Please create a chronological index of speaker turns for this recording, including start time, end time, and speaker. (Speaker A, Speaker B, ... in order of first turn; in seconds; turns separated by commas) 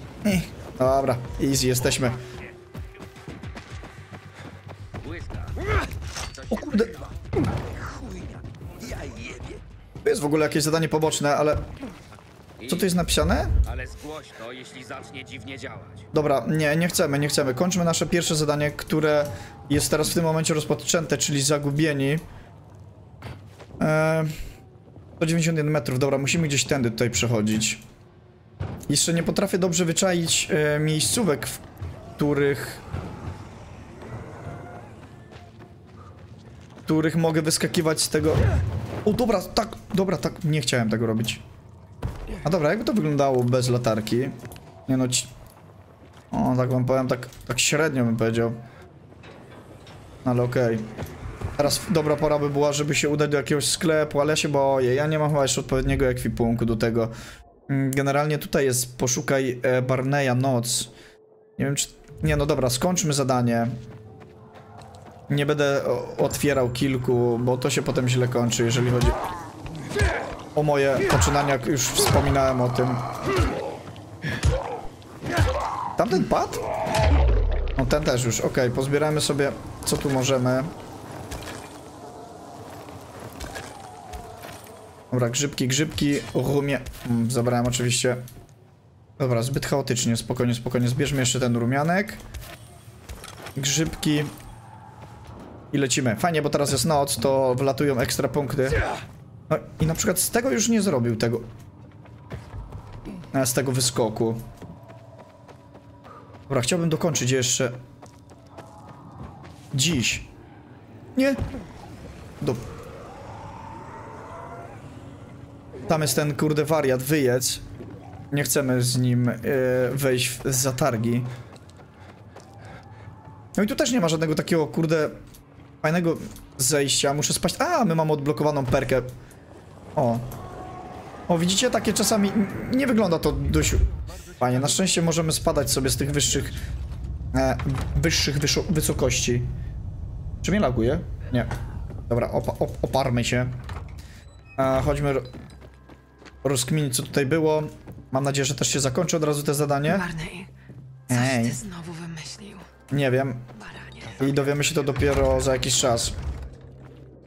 Speaker A: 0.2-2.2, Speaker B: 5.0-5.5, Speaker A: 6.5-7.0, Speaker A: 10.0-11.7, Speaker A: 12.7-13.6, Speaker B: 13.7-16.0, Speaker A: 16.1-22.2, Speaker A: 23.8-24.3, Speaker A: 25.2-27.8, Speaker A: 28.9-31.6, Speaker A: 32.2-32.8, Speaker A: 36.9-38.4, Speaker A: 39.0-41.4, Speaker A: 42.4-44.4, Speaker A: 44.9-45.3, Speaker A: 46.3-48.6, Speaker A: 50.2-50.9, Speaker A: 51.6-57.1, Speaker A: 57.7-60.9, Speaker A: 61.6-63.8, Speaker A: 65.3-69.2, Speaker A: 70.5-73.1, Speaker A: 76.0-76.6, Speaker A: 77.8-80.7, Speaker A: 85.1-88.2, Speaker A: 89.2-92.2, Speaker A: 93.6-94.3, Speaker A: 95.7-98.8, Speaker A: 99.5-101.5, Speaker A: 103.3-104.4, Speaker A: 106.5-107.8, Speaker A: 109.7-110.3, Speaker A: 111.2-111.4, Speaker A: 115.9-117.6, Speaker A: 118.3-121.3, Speaker A: 123.6-125.2, Speaker A: 125.8-129.1, Speaker A: 130.0-130.2, Speaker A: 131.3-136.6, Speaker A: 137.3-139.5, Speaker A: 140.4-141.5, Speaker A: 142.1-143.6, Speaker A: 144.6-145.3, Speaker A: 146.4-150.1, Speaker C: 149.8-150.5, Speaker A: 151.1-151.6, Speaker C: 151.1-152.7, Speaker A: 152.9-153.5, Speaker C: 153.5-154.7, Speaker A: 154.2-156.2